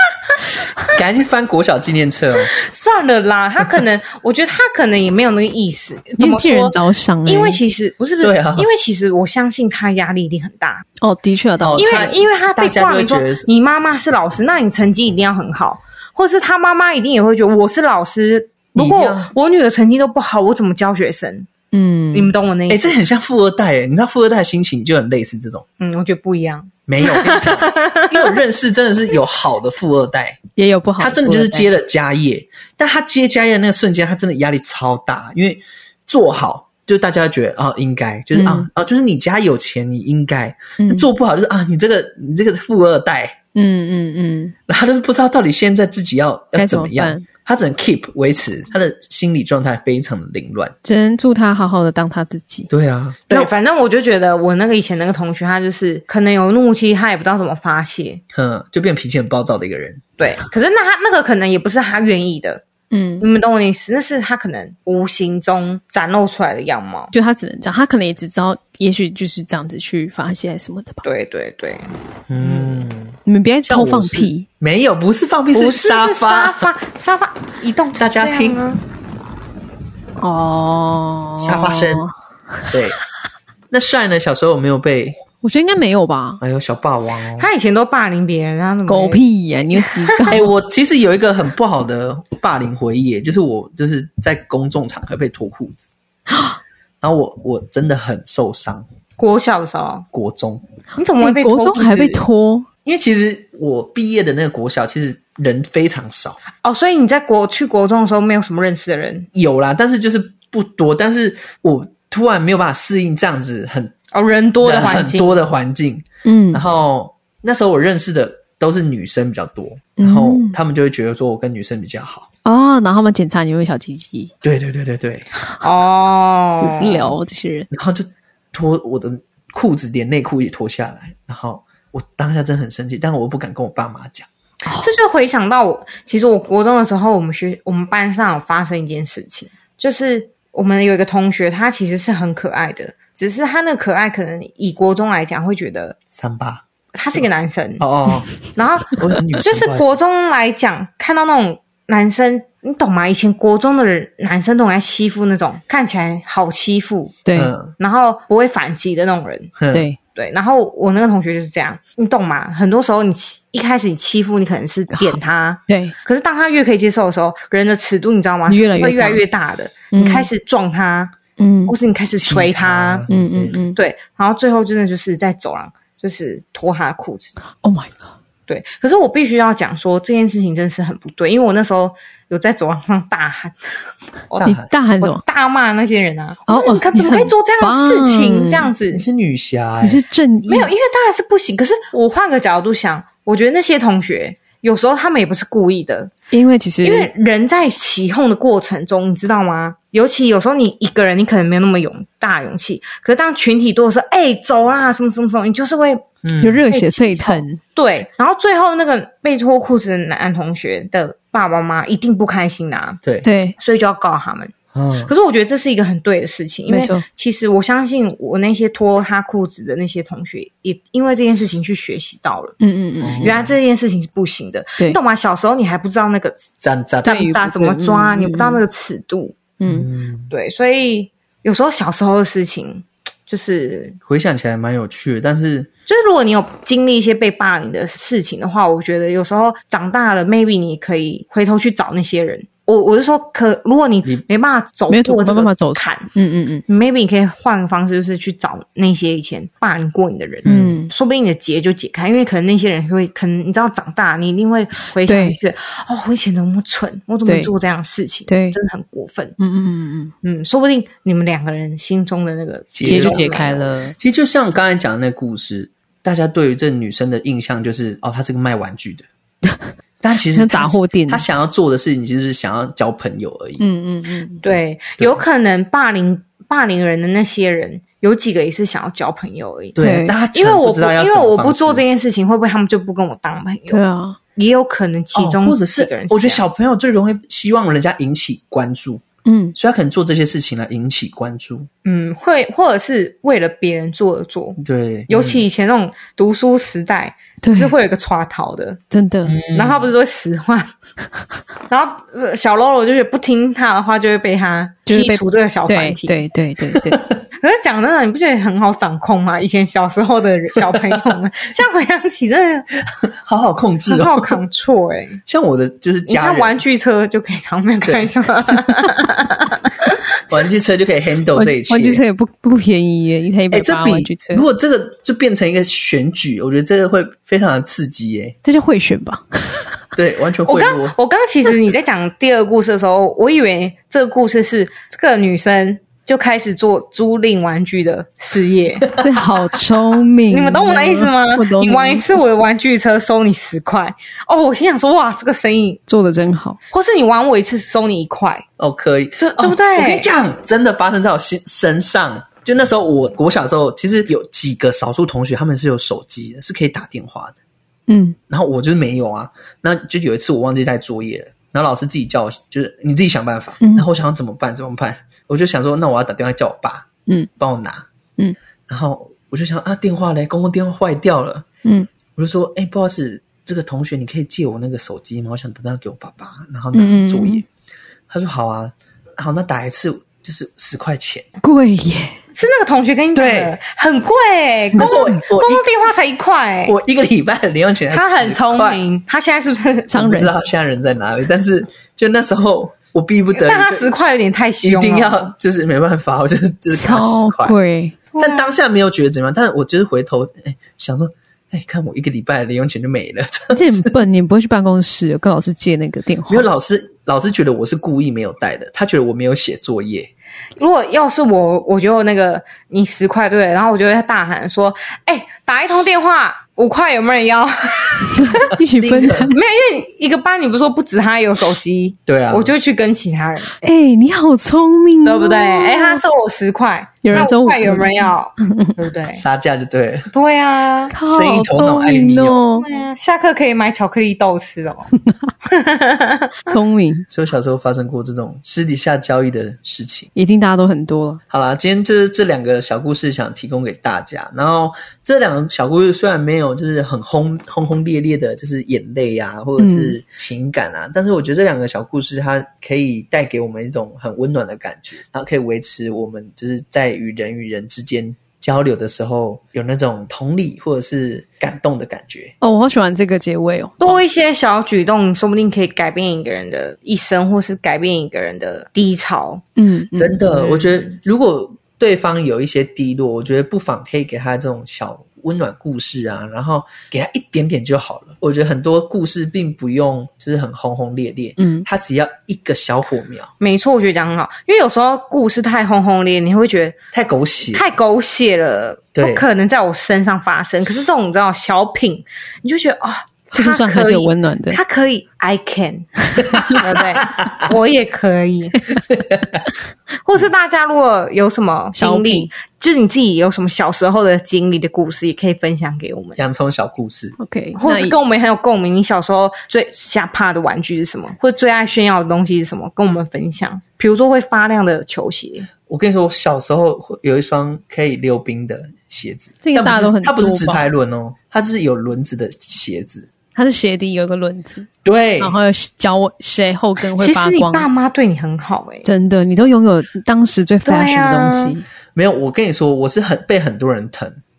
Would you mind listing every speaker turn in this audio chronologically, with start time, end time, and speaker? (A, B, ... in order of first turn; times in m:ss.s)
0:00.9-0:02.5 A
0:02.5-0:10.8 B
0:06.2-0:07.6 C
0:08.2-0:08.7 A
0:11.0-0:11.9 C
0:11.6-0:13.5 A
0:11.8-0:21.5 B
0:18.7-0:19.3 A
0:21.7-0:22.3 C
0:22.1-0:23.0 B
0:22.7-0:25.6 A
0:25.8-0:28.4 B
0:26.9-0:30.4 A
0:30.6-0:31.7 C
0:31.0-0:43.4 A
0:38.3-0:38.7 C
0:40.8-0:41.1 C
0:43.5-0:44.5 C
0:44.7-0:50.7 A
0:46.5-0:47.2 C
0:50.8-0:52.7 C
0:52.7-0:53.5 A
0:53.3-0:58.2 B
0:58.3-1:00.0 A
1:00.2-1:02.6 B
1:02.9-1:03.2 C
1:03.2-1:07.1 B
1:07.1-1:11.0 C
1:11.0-1:12.9 B
1:12.3-1:16.7 A
1:13.2-1:14.4 C
1:15.5-1:18.8 B
1:18.0-1:18.6 A
1:20.2-1:22.7 C
1:21.4-1:22.0 A
1:22.7-1:23.0 A
1:23.7-1:25.2 A
1:25.4-1:26.4 C
1:26.4-1:27.5 A
1:27.4-1:29.2 B
1:28.9-1:30.5 C
1:29.8-1:30.3 B
1:30.3-1:35.9 A
1:37.0-1:38.9 A
1:39.2-1:40.0 B
1:40.1-1:40.6 A
1:41.0-1:42.2 B
1:41.2-1:42.7 C
1:42.8-1:46.4 A
1:46.6-1:49.3 B
1:49.3-1:53.9 A
1:54.1-1:55.4 B
1:54.6-2:02.3 A
1:56.2-1:56.6 C
2:00.0-2:00.6 C
2:02.4-2:04.3 C
2:04.4-2:05.3 A
2:05.6-2:07.2 B
2:06.6-2:07.7 C
2:07.7-2:14.3 A
2:14.8-2:26.0 B
2:26.1-2:27.3 A
2:26.9-2:27.8 B
2:27.8-2:28.3 A
2:28.5-2:37.2 B
2:28.9-2:30.0 A
2:37.2-2:37.5 C
2:37.3-2:37.7 A
2:37.8-2:39.5 B
2:39.6-2:39.9 A
2:39.7-2:40.0 C
2:40.1-2:51.1 B
2:44.9-2:45.9 C
2:48.5-2:49.2 C
2:49.9-2:50.3 C
2:51.4-2:51.7 C
2:51.7-2:53.0 B
2:52.2-2:53.6 A
2:53.1-2:53.8 C
2:53.7-2:57.4 B
2:57.6-2:58.1 C
2:58.5-3:03.7 B
3:04.3-3:04.7 A
3:04.4-3:05.2 C
3:05.0-3:09.0 B
3:06.5-3:08.7 C
3:08.9-3:10.0 A
3:09.8-3:10.7 C
3:10.5-3:16.1 B
3:16.3-3:17.1 C
3:16.8-3:26.0 B
3:26.2-3:26.6 A
3:26.4-3:27.6 C
3:26.7-3:33.0 B
3:33.2-3:33.6 C
3:33.6-3:34.5 B
3:34.7-3:35.1 A
3:35.0-3:42.6 B
3:36.7-3:37.0 C
3:42.6-3:43.3 C
3:43.0-3:43.5 A
3:43.2-3:46.4 B
3:46.6-3:47.2 A
3:47.0-3:49.4 B
3:47.0-3:48.6 C
3:49.6-3:49.9 C
3:49.6-3:50.3 A
3:50.3-3:54.0 B
3:54.0-3:55.7 A
3:55.9-4:06.1 B
4:04.9-4:06.6 C
4:06.7-4:19.4 B
4:10.4-4:10.8 A
4:10.4-4:10.9 C
4:15.1-4:15.4 C
4:17.2-4:17.5 C
4:18.3-4:18.6 C
4:19.4-4:20.1 C
4:20.2-4:23.7 B
4:22.7-4:29.0 A
4:22.8-4:24.0 C
4:30.0-4:33.6 A
4:30.3-4:31.2 C
4:33.6-4:34.4 C
4:34.4-4:43.8 B
4:39.8-4:41.8 A
4:39.8-4:40.2 C
4:43.7-4:44.2 C
4:44.4-4:46.4 B
4:45.1-4:49.0 A
4:49.2-4:49.6 C
4:49.6-4:51.7 A
4:51.8-4:58.8 B
4:54.6-4:55.4 A
4:57.4-4:57.8 C
4:58.9-4:59.4 C
4:59.2-4:59.9 A
4:59.5-5:00.7 B
5:01.7-5:06.2 B
5:04.9-5:07.0 C
5:06.7-5:07.2 A
5:07.4-5:12.7 B
5:10.6-5:11.1 A
5:13.0-5:14.4 A
5:13.8-5:15.2 B
5:15.2-5:16.6 A
5:16.0-5:19.9 B
5:17.8-5:18.1 A
5:20.3-5:22.0 A
5:21.3-5:24.4 C
5:23.5-5:28.4 A
5:28.4-5:29.7 C
5:30.0-5:30.9 A
5:30.5-5:38.9 B
5:38.9-5:39.3 A
5:39.0-5:42.2 C
5:40.3-5:45.8 B
5:45.9-5:46.6 C
5:46.7-5:48.4 B
5:48.6-5:57.4 A
5:49.2-5:50.1 B
5:57.9-5:58.2 C
5:58.3-6:07.9 A
6:08.7-6:11.5 A
6:12.2-6:17.4 A
6:16.7-6:17.4 C
6:18.1-6:21.3 A
6:21.4-6:22.2 C
6:22.3-6:26.7 B
6:23.1-6:23.5 A
6:24.8-6:25.7 A
6:24.8-6:25.0 C
6:26.6-6:28.8 A
6:27.9-6:29.9 B
6:29.9-6:30.3 C
6:30.0-6:33.9 A
6:33.3-6:35.3 B
6:34.6-6:37.6 A
6:36.7-6:38.0 C
6:38.2-6:38.4 B
6:38.2-6:43.9 A
6:43.5-6:46.5 C
6:46.3-6:50.1 A
6:50.6-7:03.5 B
6:58.3-6:59.4 C
6:58.8-6:59.3 A
7:02.1-7:02.5 A
7:03.6-7:06.0 C
7:05.0-7:09.2 B
7:07.0-7:08.8 C
7:09.1-7:10.1 A
7:10.1-7:10.9 B
7:10.9-7:12.6 C
7:11.0-7:12.4 A
7:12.6-7:14.9 B
7:15.4-7:16.5 B
7:16.5-7:17.1 C
7:17.1-7:20.1 A
7:20.1-7:21.2 C
7:21.3-7:42.3 A
7:29.6-7:29.9 C
7:42.4-7:44.0 C
7:43.8-7:49.4 B
7:49.6-7:50.2 C
7:49.9-8:03.3 A
7:50.3-7:50.9 B
8:01.4-8:01.6 C
8:03.4-8:06.8 B
8:06.9-8:07.6 A
8:07.5-8:18.6 B
8:09.0-8:09.2 A
8:13.3-8:14.6 C
8:16.2-8:17.5 A
8:18.9-8:19.4 A
8:20.0-8:26.2 B
8:21.8-8:22.3 C
8:26.2-8:27.2 A
8:27.2-8:28.0 C
8:27.6-8:35.5 B
8:35.7-8:43.1 A
8:39.4-8:40.7 C
8:43.3-8:44.7 C
8:44.8-8:45.3 A
8:45.2-8:47.7 C
8:46.9-8:48.9 B
8:48.8-8:51.6 C
8:50.6-8:51.5 B
8:51.9-8:54.2 A